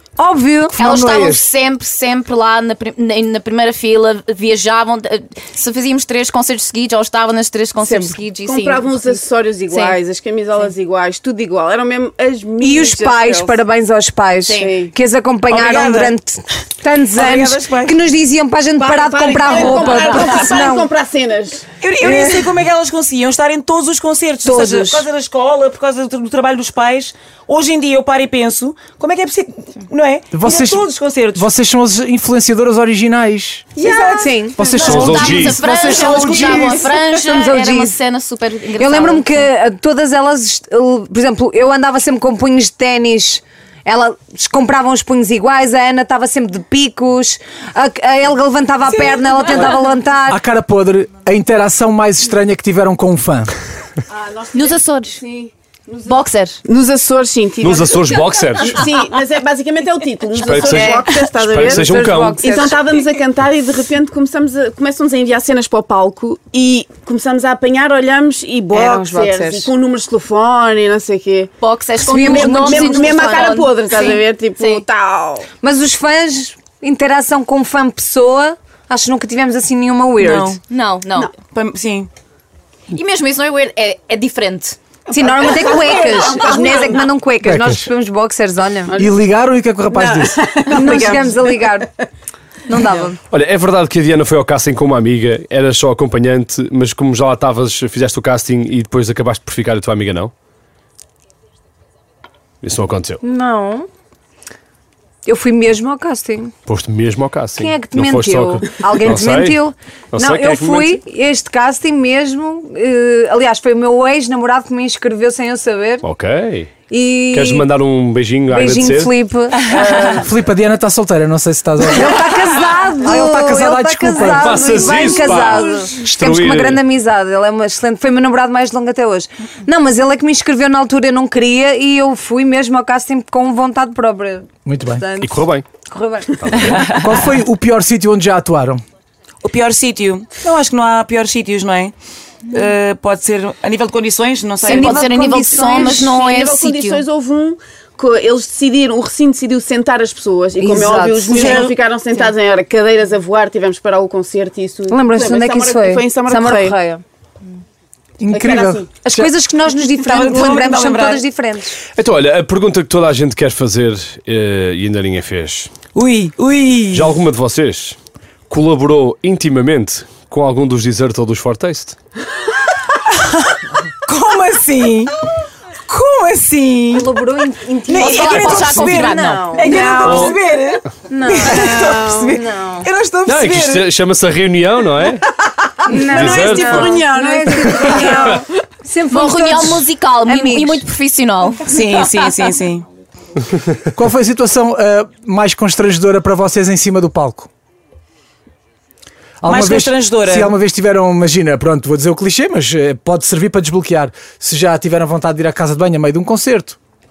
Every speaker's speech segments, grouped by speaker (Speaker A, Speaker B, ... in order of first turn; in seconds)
Speaker A: 0.2-0.8, 12.6-20.9, 22.0-22.4, 24.4-25.1, 34.2-38.0, 38.8-50.4, 61.6-62.8, 68.7-69.7, 72.1-73.7, 75.6-80.6, 85.1-89.0, 90.7-92.0, 92.7-93.2, 103.2-103.9, 105.2-106.5, 107.5-116.0, 116.9-117.7, 118.5-120.3, 121.8-136.7, 144.6-146.3, 150.6-151.7, 154.9-157.0, 159.0-161.8, 176.9-180.3, 181.1-182.9, 185.8-190.8
Speaker B: 0.7-1.5, 30.3-33.7, 34.5-36.8, 50.3-53.5, 87.4-87.9, 89.0-90.5, 120.2-122.3, 123.0-125.1, 134.7-135.0, 136.8-138.8, 158.2-159.3, 193.9-197.5, 199.4-206.8
Speaker C: 0.8-8.9, 9.7-10.0, 14.4-14.7, 19.5-20.2, 34.7-39.3, 54.5-55.2, 56.0-56.6, 71.6-74.8, 80.7-81.3, 82.9-84.8, 144.6-147.0, 177.9-179.7, 189.1-192.3
Speaker D: 7.8-13.6, 14.6-14.9, 18.8-21.7, 33.8-35.0, 36.0-36.7, 54.1-71.5, 72.1-75.5, 85.1-87.1, 88.9-89.2, 89.9-91.6, 146.0-156.8, 158.3-158.9, 179.7-180.2, 181.5-182.3, 185.9-188.5
Speaker E: 15.5-16.1, 17.1-17.9, 21.8-31.5, 33.8-34.3, 80.2-80.6, 81.4-82.1, 119.6-120.2, 136.8-137.1, 139.4-141.9, 142.5-145.1, 151.3-151.7, 160.0-161.2, 165.9-167.2, 174.1-175.1, 175.9-177.3, 177.8-183.9, 191.7-192.8, 199.4-200.5
Speaker F: 34.7-35.7, 57.6-58.9, 60.4-62.5, 93.3-100.3, 102.6-103.2, 106.7-109.6, 110.1-111.0, 116.0-116.8, 117.3-119.1, 124.2-126.8, 135.2-135.7, 136.4-136.8, 161.9-165.7, 166.9-168.0, 168.5-171.9, 180.0-180.4, 183.2-185.2, 186.0-187.0, 187.9-188.1